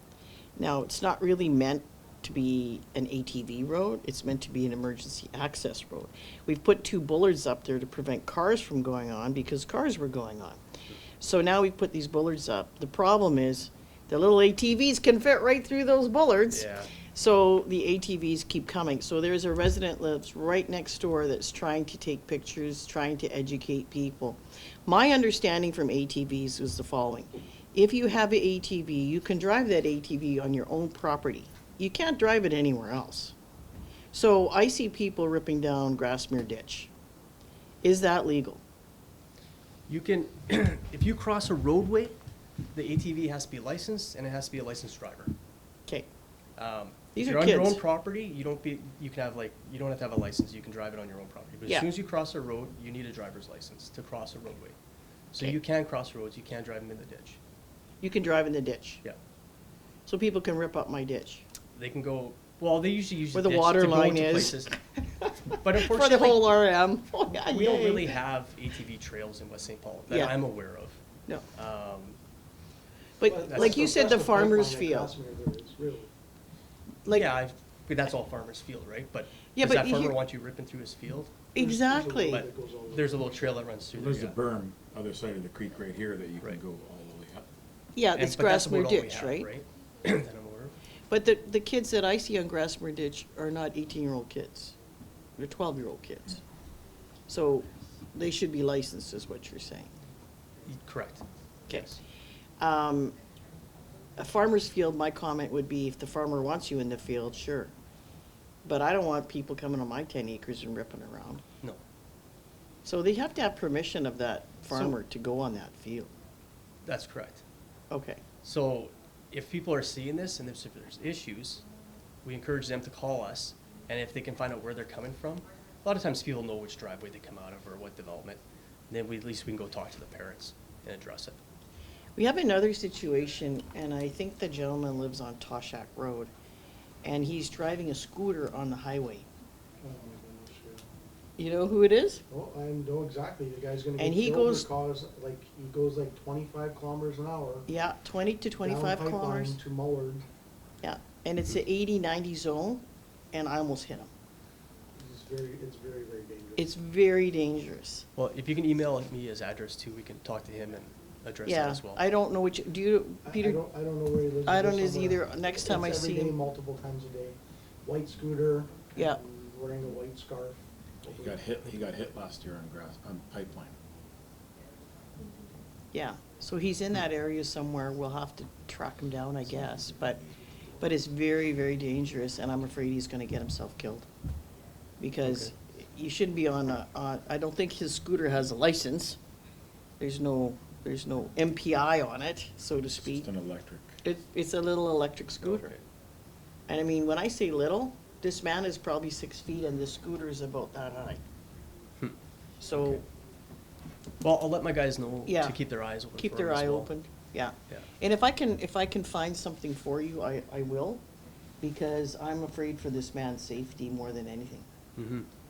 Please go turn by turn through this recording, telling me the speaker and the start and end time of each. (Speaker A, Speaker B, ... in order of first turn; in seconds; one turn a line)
Speaker A: 0.6-10.6
Speaker A: 11.2-33.3
Speaker B: 16.5-16.9
Speaker A: 34.1-36.9
Speaker A: 37.8-38.6
Speaker B: 39.9-42.1
Speaker B: 42.7-45.3
Speaker B: 46.6-54.7
Speaker A: 47.1-47.8
Speaker B: 55.3-57.4
Speaker A: 58.0-59.0
Speaker A: 60.1-61.4
Speaker B: 61.7-64.8
Speaker A: 63.3-68.1
Speaker B: 65.5-66.4
Speaker B: 67.4-71.0
Speaker A: 70.1-70.3
Speaker B: 71.5-72.2
Speaker A: 73.2-75.1
Speaker C: 73.2-76.1
Speaker B: 73.5-74.4
Speaker A: 77.0-77.3
Speaker B: 77.1-81.5
Speaker A: 79.5-80.2
Speaker A: 81.5-82.4
Speaker C: 81.5-83.7
Speaker B: 82.2-84.4
Speaker D: 83.9-87.5
Speaker A: 87.9-89.5
Speaker B: 88.2-90.8
Speaker A: 91.1-94.8
Speaker A: 95.4-96.4
Speaker A: 97.3-99.9
Speaker B: 100.7-102.0
Speaker A: 101.7-102.0
Speaker A: 102.6-103.1
Speaker A: 104.2-107.7
Speaker A: 108.6-111.4
Speaker A: 112.8-116.1
Speaker B: 116.8-117.4
Speaker A: 117.9-118.2
Speaker B: 118.4-121.6
Speaker B: 122.2-131.4
Speaker A: 132.2-136.3
Speaker A: 137.0-139.3
Speaker C: 139.8-140.8
Speaker A: 141.4-142.2
Speaker C: 142.3-147.7
Speaker A: 144.0-144.7
Speaker A: 147.7-149.6
Speaker C: 148.6-150.2
Speaker A: 150.8-154.1
Speaker C: 155.0-156.7
Speaker A: 156.6-158.1
Speaker B: 158.1-162.0
Speaker A: 161.4-163.6
Speaker C: 163.2-171.4
Speaker A: 164.4-166.4
Speaker D: 171.1-173.8
Speaker A: 175.9-180.2
Speaker A: 180.8-184.1
Speaker A: 185.0-189.2
Speaker B: 185.2-185.5
Speaker A: 190.0-193.3
Speaker D: 192.9-194.0
Speaker A: 194.0-195.7
Speaker B: 195.4-195.8
Speaker A: 196.7-201.2
Speaker A: 202.6-203.0
Speaker B: 202.7-203.0
Speaker B: 204.2-206.9
Speaker A: 205.2-205.6
Speaker A: 206.1-211.0
Speaker A: 211.6-214.7
Speaker B: 215.0-215.3